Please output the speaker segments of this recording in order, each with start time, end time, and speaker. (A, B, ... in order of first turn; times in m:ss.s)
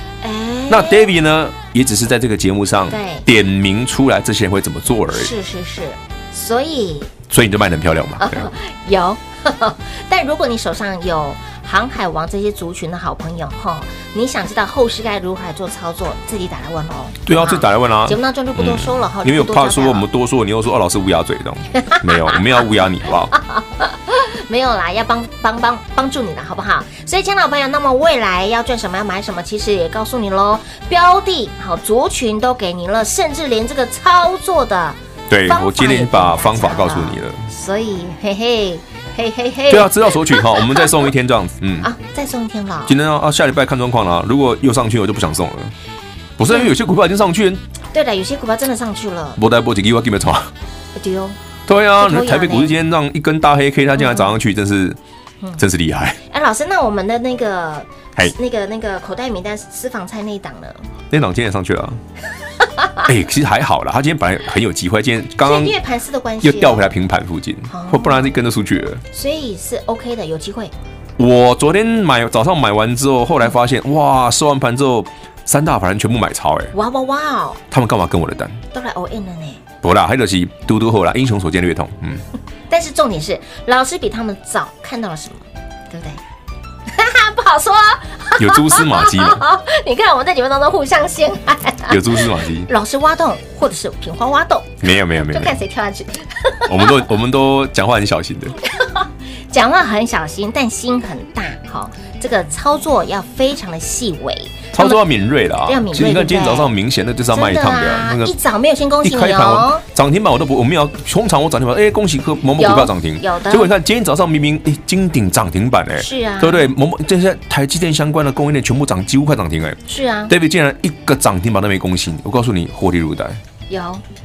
0:00.2-0:01.1 A
0:00.7-0:05.3 B
0:02.9-0:03.2 A
0:05.1-0:07.1 A
0:07.3-0:08.5 B
0:08.2-0:20.0 A
0:17.2-0:23.3 B
0:21.7-0:22.6 A
0:23.3-0:41.0 A
0:35.3-0:37.5 B
0:39.7-0:41.9 B
0:41.8-0:42.9 A
0:42.9-0:45.7 B
0:46.4-0:47.6 B
0:47.9-0:49.4 A
0:49.4-0:50.5 B
0:51.0-0:51.4 A
0:51.7-0:55.0 B
0:52.0-0:52.7 A
0:54.0-0:54.4 A
0:55.6-0:56.2 B
0:56.3-1:00.8 A
1:01.1-1:02.0 B
1:02.8-1:03.0 A
1:03.0-1:05.7 B
1:05.4-1:06.9 A
1:06.4-1:09.0 B
1:07.7-1:08.4 A
1:09.1-1:10.7 A
1:11.2-1:16.7 B
1:16.7-1:17.6 A
1:17.7-1:18.6 B
1:18.7-1:19.6 A
1:19.8-1:22.2 B
1:22.7-1:26.2 A
1:26.9-1:37.0 A
1:28.4-1:29.4 B
1:31.9-1:32.7 B
1:34.8-1:35.6 B
1:36.6-1:38.6 B
1:38.7-1:45.0 A
1:44.7-1:48.3 B
1:45.6-1:46.7 A
1:47.3-1:49.8 A
1:49.0-2:03.4 B
1:52.6-1:53.7 A
1:56.0-1:56.7 A
1:59.9-2:00.3 A
2:03.7-2:04.0 A